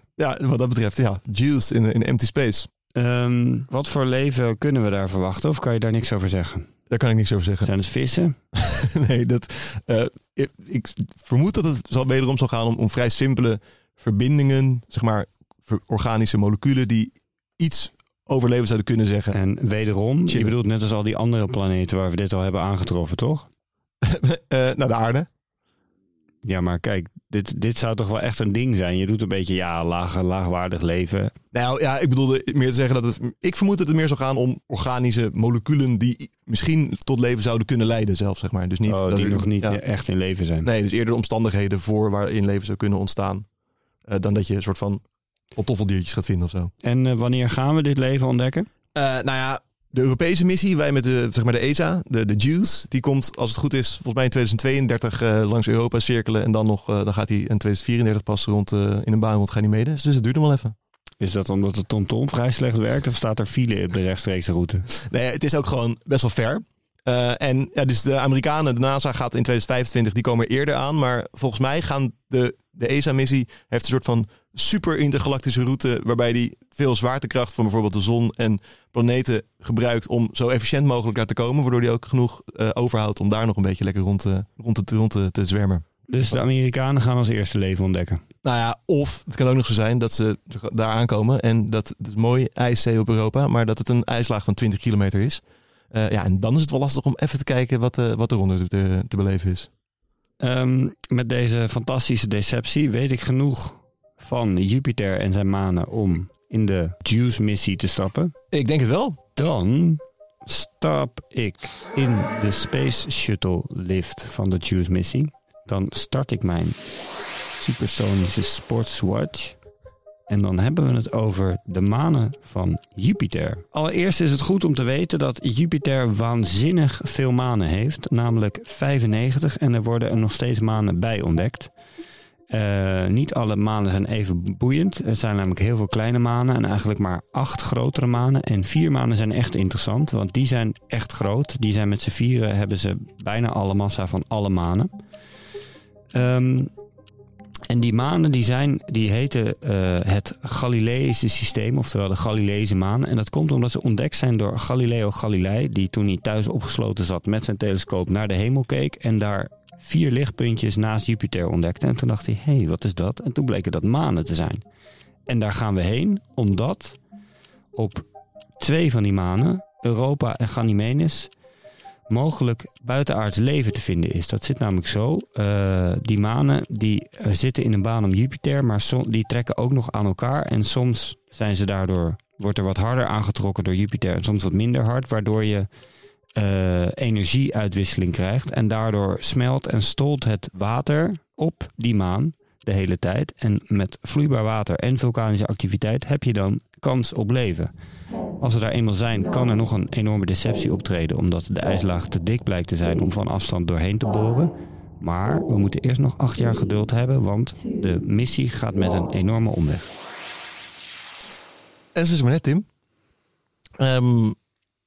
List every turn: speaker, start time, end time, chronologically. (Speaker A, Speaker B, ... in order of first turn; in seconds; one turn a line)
Speaker A: 0.1-2.7
Speaker B: 2.9-6.7
Speaker A: 6.9-7.7
Speaker B: 7.6-8.3
Speaker A: 8.5-19.4
Speaker B: 19.3-23.5
Speaker A: 20.3-20.6
Speaker A: 24.0-25.3
Speaker B: 26.4-31.3
Speaker A: 31.5-39.8
Speaker B: 38.9-40.7
Speaker A: 40.6-43.5
Speaker A: 44.1-45.0
Speaker A: 45.5-46.7
Speaker B: 46.8-48.7
Speaker A: 48.9-60.7
Speaker B: 61.2-64.9
Speaker A: 65.0-85.8
Speaker B: 86.1-88.2
Speaker A: 88.4-99.7
Speaker B: 100.4-108.3
Speaker A: 108.5-109.2
Speaker B: 109.3-116.8
Speaker B: 117.5-119.6
Speaker B: 120.3-131.7
Speaker B: 132.5-144.9
Speaker B: 146.1-146.7
Speaker B: 147.7-164.6
Speaker B: 165.3-167.0
Speaker B: 167.7-168.1
Speaker B: 168.6-171.3
Speaker B: 172.1-185.7
Speaker B: 186.3-197.7
Speaker B: 198.4-209.9
Speaker A: 211.9-212.7
Speaker A: 213.8-214.3